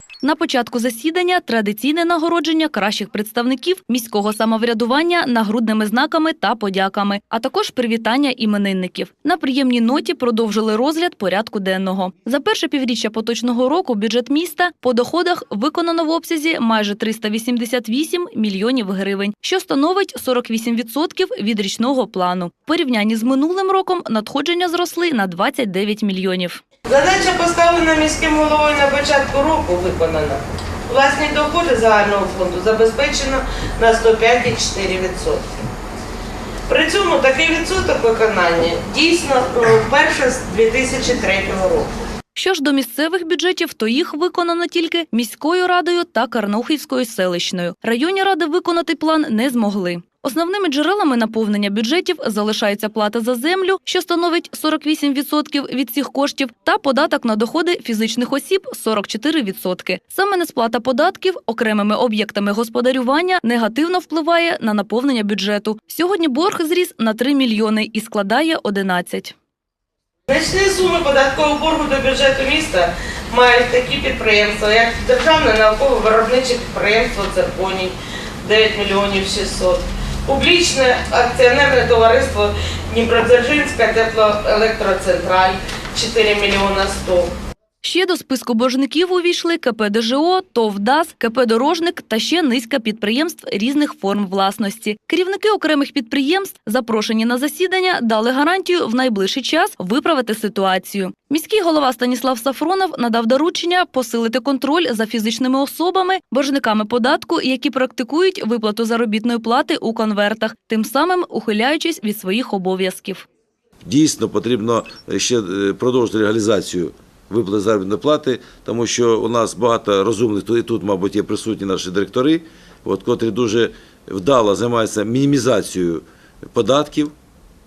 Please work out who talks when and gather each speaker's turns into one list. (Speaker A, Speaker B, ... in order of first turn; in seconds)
Speaker A: 0.2-26.6, 42.4-69.3, 87.8-113.3
Speaker B: 26.9-35.5, 36.7-41.9, 70.3-87.3
Speaker C: 113.8-127.1